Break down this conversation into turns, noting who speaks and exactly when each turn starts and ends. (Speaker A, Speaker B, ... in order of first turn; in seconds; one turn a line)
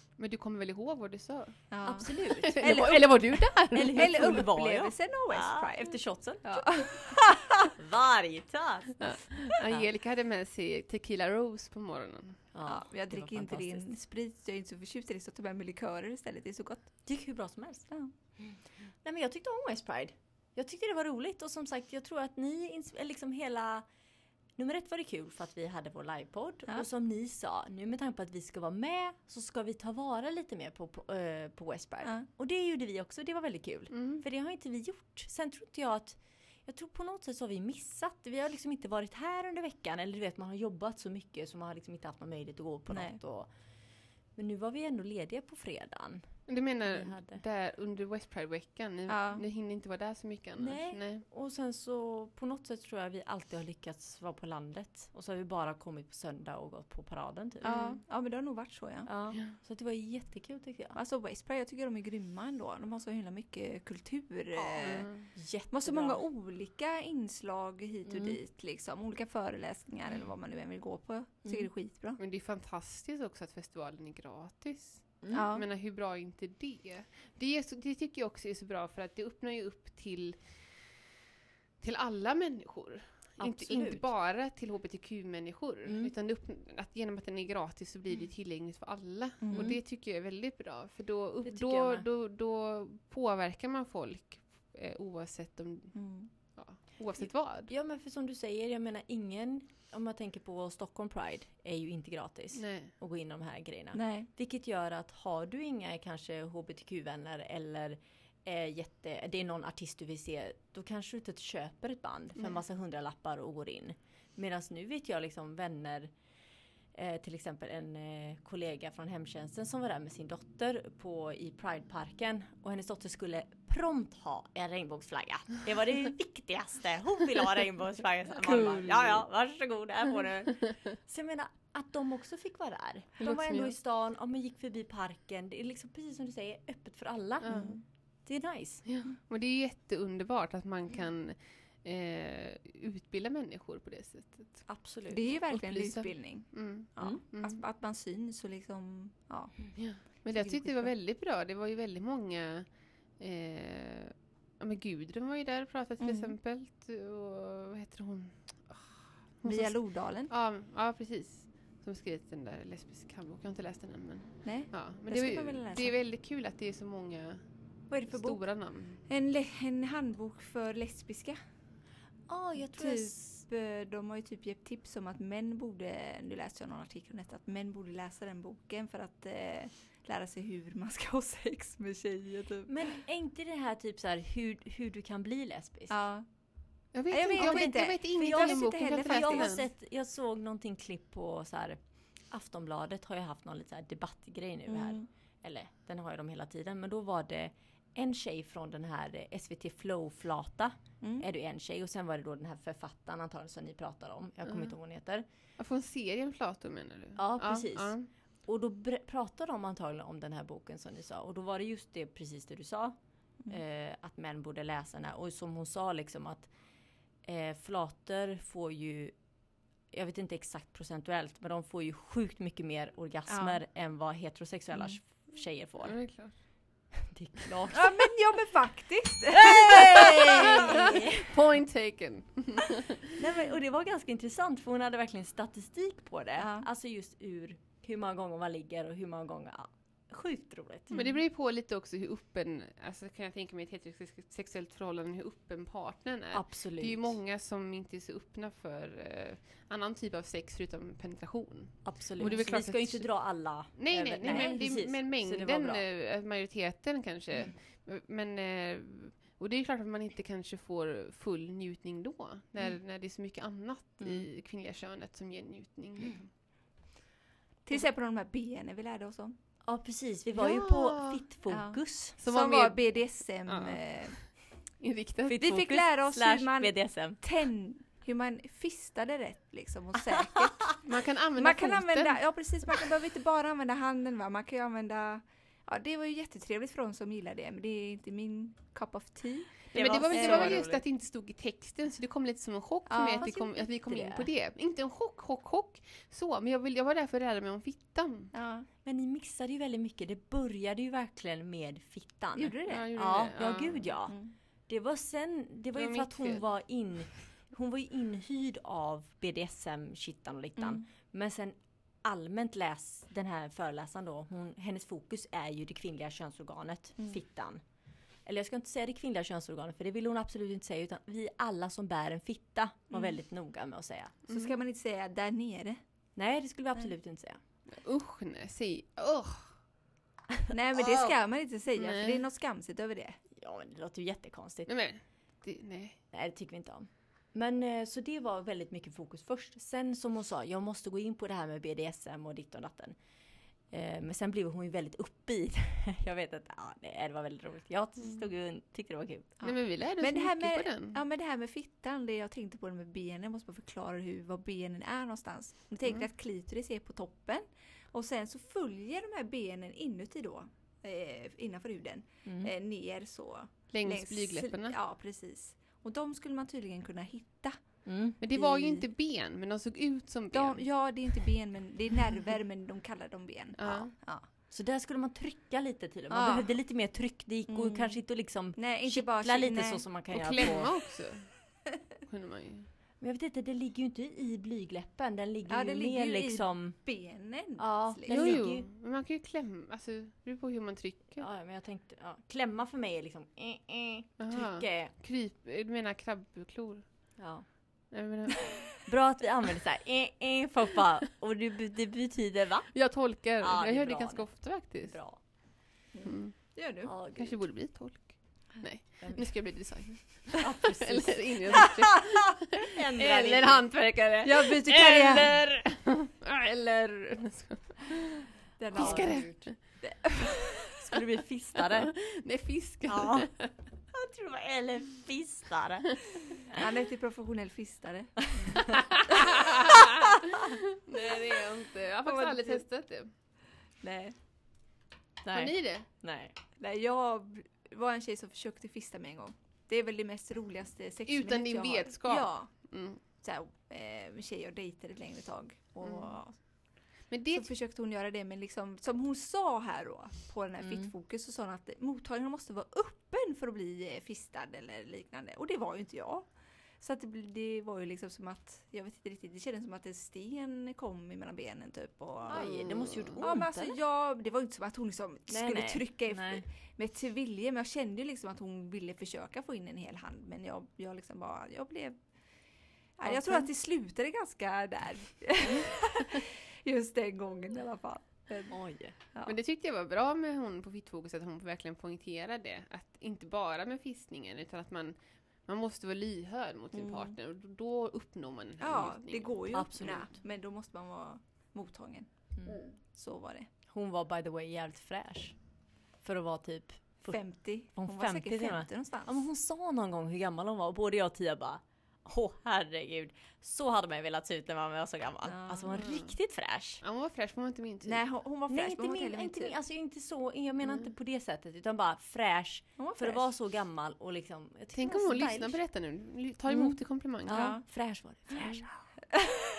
Speaker A: 0.2-4.4
Speaker B: 1.7-5.9
Speaker C: 1.8-3.1
Speaker C: 3.7-9.8
Speaker B: 6.4-7.2
Speaker A: 9.0-12.4
Speaker C: 12.5-13.9
Speaker B: 12.7-16.9
Speaker C: 17.1-23.9
Speaker C: 24.6-43.5
Speaker A: 33.9-34.2
Speaker B: 42.9-43.2
Speaker C: 44.4-46.3
Speaker A: 46.5-51.2
Speaker C: 46.9-47.4
Speaker B: 49.1-49.4
Speaker C: 50.6-57.8
Speaker A: 57.6-58.0
Speaker B: 57.6-59.1
Speaker C: 59.0-61.0
Speaker B: 60.9-65.1
Speaker C: 64.6-66.2
Speaker A: 64.8-65.3
Speaker B: 65.7-72.2
Speaker C: 68.0-68.4
Speaker A: 72.2-81.0
Speaker B: 75.3-75.6
Speaker A: 81.8-96.0
Speaker C: 83.4-84.0
Speaker C: 85.8-86.1
Speaker B: 89.4-89.8
Speaker C: 91.5-92.0
Speaker B: 95.9-96.3
Speaker A: 96.5-97.7
Speaker C: 97.7-116.1
Speaker A: 102.5-102.9
Speaker B: 103.9-104.3
Speaker C: 116.9-137.7
Speaker A: 128.5-129.2
Speaker A: 133.2-133.7
Speaker A: 137.4-137.7
Speaker B: 137.4-137.8
Speaker C: 138.2-138.8
Speaker A: 138.8-144.7
Speaker C: 144.7-145.2
Speaker B: 145.1-150.9
Speaker A: 145.5-147.6
Speaker A: 149.8-167.4
Speaker B: 156.0-156.3
Speaker B: 159.4-160.3
Speaker B: 164.4-165.9
Speaker B: 167.9-168.4
Speaker A: 168.0-169.0
Speaker B: 169.0-171.4
Speaker C: 172.3-173.4
Speaker B: 172.7-183.0
Speaker C: 182.7-185.9
Speaker B: 185.9-186.2
Speaker A: 186.9-189.7
Speaker B: 187.1-189.5
Speaker C: 187.3-205.2
Speaker B: 194.7-195.1
Speaker B: 201.0-201.2
Speaker A: 204.4-204.7
Speaker A: 205.6-208.1
Speaker C: 207.2-212.9
Speaker C: 213.5-216.5
Speaker C: 217.2-219.1
Speaker C: 219.9-226.0
Speaker B: 223.3-223.6
Speaker A: 225.8-226.3
Speaker C: 227.0-228.1
Speaker B: 227.7-231.0
Speaker C: 229.3-231.3
Speaker A: 230.1-233.2
Speaker C: 233.1-241.0
Speaker B: 236.4-236.7
Speaker B: 240.9-241.2
Speaker A: 240.9-266.3
Speaker C: 246.3-247.2
Speaker C: 251.8-255.8
Speaker B: 252.2-252.5
Speaker B: 254.3-254.6
Speaker C: 264.0-264.2
Speaker B: 267.6-269.3
Speaker C: 269.6-272.1
Speaker A: 270.3-271.2
Speaker B: 271.5-274.1
Speaker A: 272.2-275.4
Speaker C: 275.3-277.2
Speaker B: 275.4-280.8
Speaker A: 280.8-282.2
Speaker B: 281.4-290.6
Speaker C: 289.7-290.8
Speaker A: 289.7-298.3
Speaker B: 292.9-294.2
Speaker B: 298.3-298.7
Speaker C: 298.8-304.1
Speaker B: 302.3-302.9
Speaker A: 302.7-303.9
Speaker B: 304.1-304.3
Speaker C: 304.7-317.6
Speaker A: 305.7-306.4
Speaker B: 310.6-310.8
Speaker C: 318.2-324.1
Speaker B: 324.3-325.8
Speaker C: 326.1-327.4
Speaker A: 327.7-329.5
Speaker B: 330.5-333.2
Speaker C: 330.8-331.1
Speaker A: 331.8-332.2
Speaker C: 333.4-334.7
Speaker A: 334.7-336.0
Speaker C: 336.1-342.9
Speaker C: 343.7-349.3
Speaker B: 349.4-367.6
Speaker A: 349.4-351.0
Speaker A: 363.7-364.8
Speaker C: 367.9-368.2
Speaker A: 368.2-370.6
Speaker B: 368.3-368.8
Speaker B: 370.3-374.2
Speaker A: 373.6-373.9
Speaker C: 374.5-380.7
Speaker B: 376.1-376.5
Speaker B: 377.5-378.0
Speaker B: 378.5-379.8
Speaker A: 380.1-381.3
Speaker A: 382.1-382.7
Speaker C: 383.0-386.8
Speaker B: 385.5-388.4
Speaker C: 387.6-388.6
Speaker A: 388.1-391.2
Speaker C: 391.2-394.9
Speaker A: 394.2-396.8
Speaker C: 397.2-397.4
Speaker A: 397.9-398.8
Speaker C: 398.8-402.7
Speaker A: 402.7-405.0
Speaker C: 403.4-404.3
Speaker C: 404.8-405.2
Speaker B: 405.9-406.9
Speaker A: 406.1-406.3
Speaker C: 406.8-407.4
Speaker A: 407.1-419.6
Speaker C: 409.0-409.3
Speaker C: 410.4-413.6
Speaker B: 414.2-415.3
Speaker B: 418.6-420.6
Speaker C: 418.7-419.4
Speaker C: 420.6-422.0
Speaker A: 421.6-423.5
Speaker C: 422.9-423.3
Speaker C: 423.9-426.6
Speaker B: 426.5-429.3
Speaker C: 428.4-428.7
Speaker A: 428.7-433.1
Speaker B: 432.1-432.6
Speaker B: 433.8-434.1
Speaker C: 435.2-436.3
Speaker A: 435.3-435.9
Speaker B: 436.6-446.4
Speaker A: 441.1-443.0
Speaker A: 445.8-446.1
Speaker A: 447.1-447.5
Speaker B: 447.3-456.3
Speaker C: 450.6-450.9
Speaker B: 456.8-462.5
Speaker A: 462.3-463.2
Speaker C: 462.3-463.8
Speaker B: 463.2-472.0
Speaker C: 465.3-466.4
Speaker B: 473.0-478.6
Speaker C: 473.0-473.5
Speaker C: 478.5-478.9
Speaker A: 479.2-489.8
Speaker B: 486.7-487.1
Speaker B: 488.6-492.1
Speaker C: 489.5-490.1
Speaker B: 492.9-493.5
Speaker C: 493.7-495.4
Speaker C: 496.0-497.2
Speaker B: 497.1-499.1
Speaker C: 497.7-506.8
Speaker B: 505.3-505.9
Speaker A: 505.7-506.1
Speaker A: 506.8-508.0
Speaker B: 507.8-509.6
Speaker C: 508.5-515.6
Speaker B: 512.8-513.2
Speaker A: 514.7-517.5
Speaker C: 516.5-518.8
Speaker B: 517.3-517.6